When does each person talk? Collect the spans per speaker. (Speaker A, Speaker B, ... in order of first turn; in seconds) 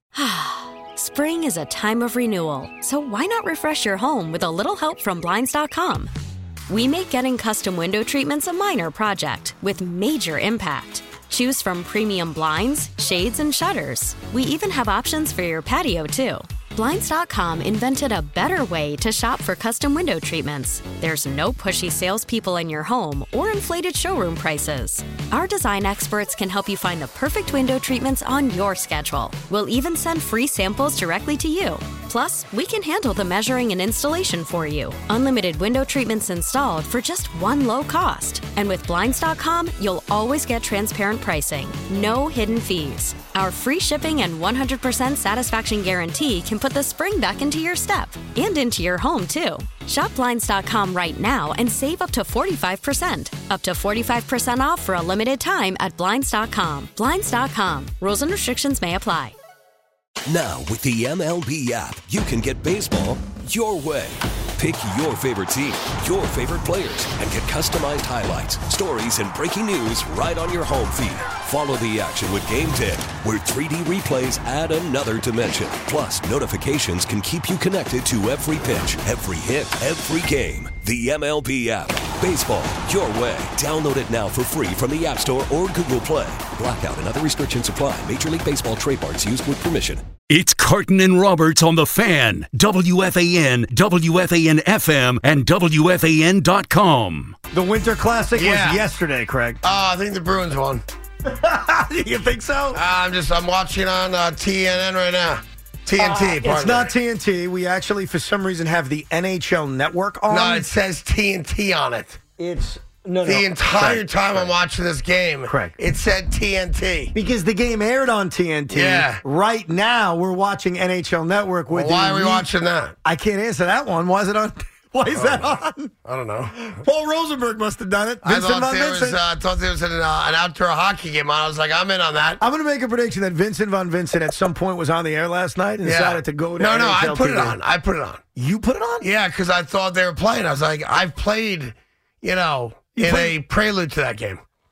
Speaker A: 0.1-6.1, 6.7-59.4
Speaker B: 60.3-90.1
Speaker C: 90.3-97.4
Speaker D: 97.5-99.6, 101.2-102.8, 106.0-110.7, 112.4-114.5, 115.5-115.8, 117.2-122.5, 123.0-125.9, 126.6-129.2, 132.4-137.6, 138.4-139.1, 143.0-143.3
Speaker E: 98.4-98.8, 99.6-100.8, 102.7-106.9, 110.3-112.2, 113.2-117.2, 118.7-119.2, 121.7-123.0, 125.1-126.8, 128.2-132.4, 135.8-138.2, 139.0-144.4